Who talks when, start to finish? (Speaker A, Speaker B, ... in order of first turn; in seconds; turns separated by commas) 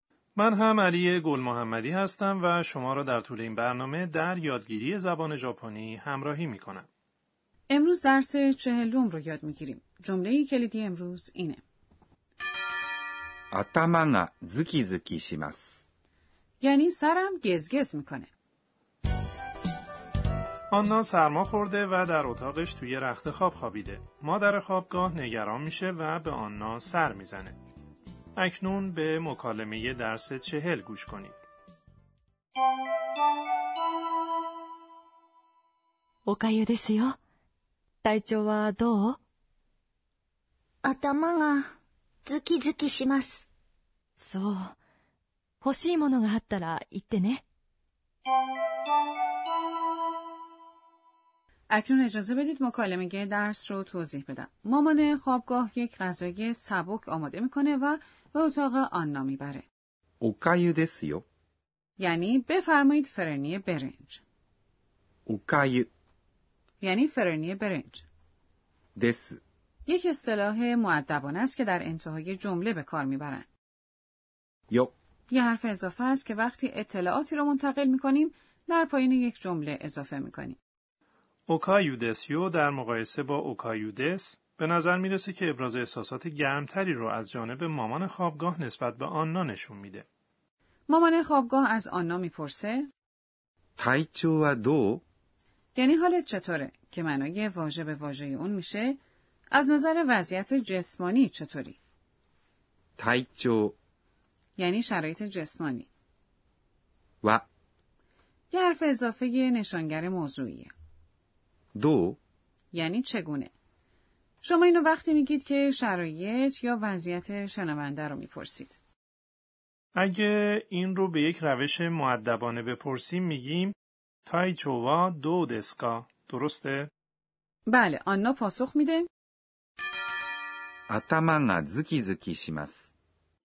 Speaker A: 0.4-6.9, Speaker B: 7.7-11.6, Speaker C: 13.5-15.9, Speaker B: 16.6-18.3, Speaker A: 20.7-27.6, Speaker A: 28.4-31.4, Speaker D: 36.2-37.2, Speaker D: 38.0-39.2, Speaker E: 40.8-41.7, Speaker E: 42.2-43.5, Speaker D: 44.2-44.7, Speaker D: 45.6-47.4, Speaker B: 51.7-59.7, Speaker C: 60.2-61.2, Speaker B: 62.0-64.2, Speaker C: 65.3-65.9, Speaker B: 66.8-68.0, Speaker C: 69.0-69.4, Speaker B: 69.8-73.5, Speaker B: 75.3-80.6, Speaker A: 81.5-90.0, Speaker B: 90.9-92.9, Speaker C: 93.8-95.0, Speaker B: 95.7-99.0, Speaker B: 99.5-101.8, Speaker C: 103.0-103.8, Speaker B: 104.6-105.9, Speaker B: 108.5-110.7, Speaker C: 111.8-112.2, Speaker B: 112.7-113.5, Speaker B: 114.4-118.8, Speaker A: 119.9-123.8, Speaker A: 124.2-126.9, Speaker B: 127.7-129.1, Speaker C: 130.9-132.9